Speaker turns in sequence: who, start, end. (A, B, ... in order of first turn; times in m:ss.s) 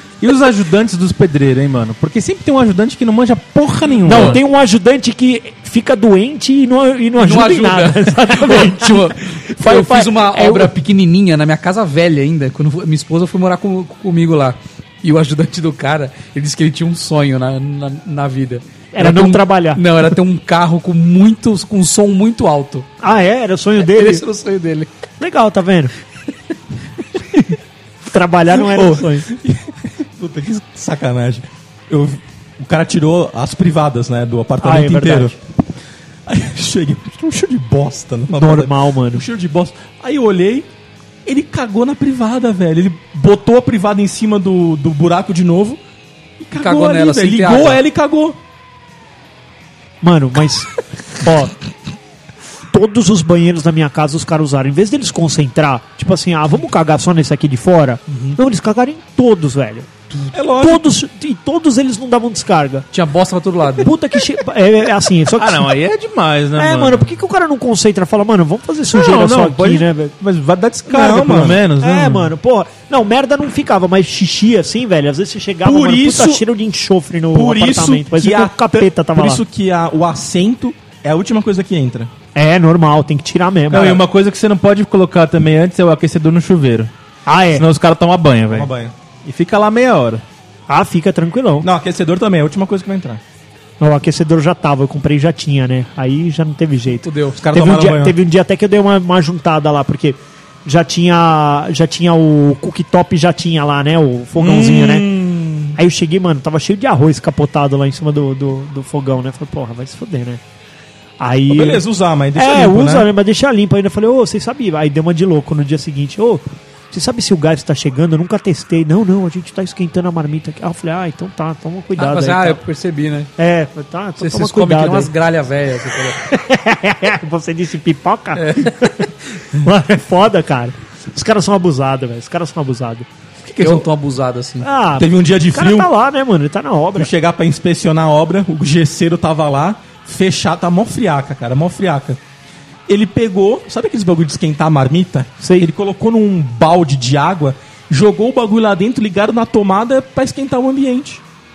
0:00.2-0:04.4 A
0:03.9-0:04.4 B
0:04.0-0:10.7 C
0:07.2-0:22.9 B
0:18.9-0:19.8 C
0:23.0-0:24.2 C
0:23.8-0:24.9 B
0:25.2-0:25.9 C
0:28.0-0:29.3 C
0:28.6-0:35.4 D
0:34.6-0:35.4 C
0:36.3-0:40.7 D
0:38.4-0:39.3 C
0:41.3-0:45.8 D
0:46.4-0:48.4 D
0:46.6-0:47.8 B
0:50.0-0:51.5 C
0:52.7-0:59.9 C
0:58.1-0:58.4 B
1:00.3-1:00.9 D
1:00.6-1:02.9 C
1:02.9-1:03.9 B
1:03.8-1:05.8 C
1:05.3-1:07.1 A
1:06.6-1:10.1 C
1:08.9-1:12.3 A
1:10.9-1:11.6 D
1:11.8-1:19.4 C
1:15.6-1:16.4 D
1:17.3-1:22.1 D
1:22.4-1:24.0 C
1:23.7-1:26.9 A
1:27.3-1:27.7 C
1:27.5-1:28.7 A
1:28.5-1:28.9 D
1:29.2-1:30.2 A
1:30.7-1:31.7 C
1:31.6-1:33.2 D
1:33.8-1:45.1 C
1:37.0-1:37.4 B
1:37.4-1:38.2 D
1:44.4-1:45.8 D
1:45.8-1:50.4 C
1:51.2-1:51.8 C
1:51.5-1:53.1 D
1:52.4-2:02.6 C
2:02.0-2:03.3 B
2:03.4-2:05.1 C
2:04.2-2:06.2 B
2:06.2-2:13.1 C
2:08.4-2:08.9 B
2:13.6-2:14.7 B
2:14.6-2:17.1 C
2:15.0-2:15.9 D
2:17.0-2:22.2 D
2:22.9-2:31.2 D
2:25.4-2:25.7 C